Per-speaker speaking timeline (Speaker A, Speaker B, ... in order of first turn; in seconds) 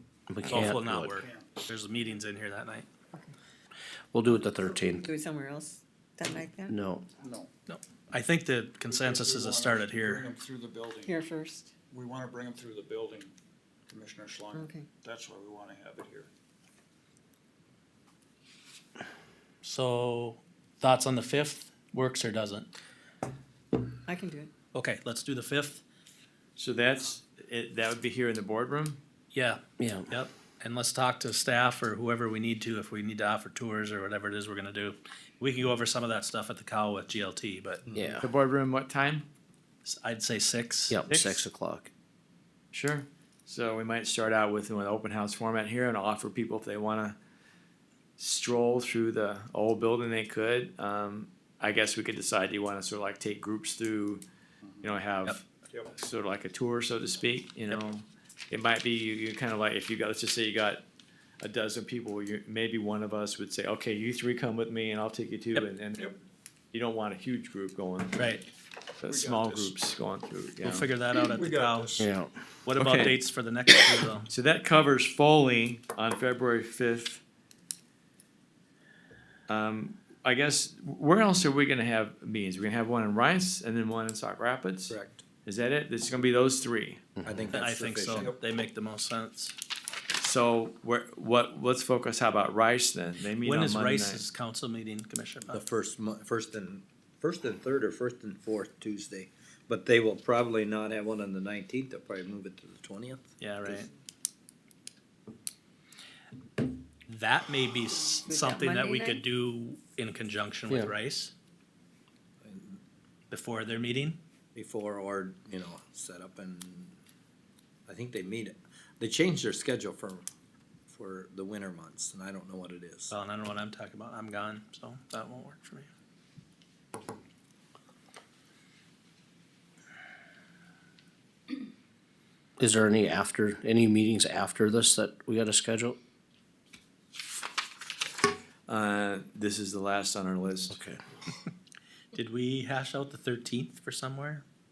Speaker A: 0.3-1.1, 4.1-5.0, 6.7-7.1, 29.8-30.1, 37.9-38.3, 40.9-41.9, 72.0-72.3, 132.6-136.0, 140.7-141.0
Speaker B: 0.4-2.9, 7.7-10.3, 19.6-22.7, 24.7-25.8, 29.3-37.8, 39.8-40.9, 68.1-68.4, 70.6-72.0, 72.7-74.3, 87.5-89.5, 93.4-95.6, 103.4-103.9, 107.1-111.3, 113.3-114.2, 123.1-125.9, 142.1-144.4
Speaker C: 1.1-1.6, 7.2-7.5, 8.9-11.1, 11.9-13.3, 13.9-16.3, 55.6-55.9, 69.0-69.8, 71.1-72.0
Speaker D: 4.3-6.8, 11.0-11.7, 14.5-14.9, 24.1-24.5, 108.3-109.2
Speaker E: 26.6-29.0, 38.2-39.3, 41.1-41.4, 42.7-47.2, 48.2-54.2, 54.8-55.4, 55.9-60.8, 61.4-66.0, 66.7-68.4, 69.0-70.9, 72.7-73.2, 74.3-77.2, 79.5-87.2, 90.2-94.2, 138.7-140.8
Speaker F: 84.9-85.2, 87.2-88.4, 95.5-103.8, 112.4-112.8, 114.5-116.9, 117.9-120.2, 120.9-123.1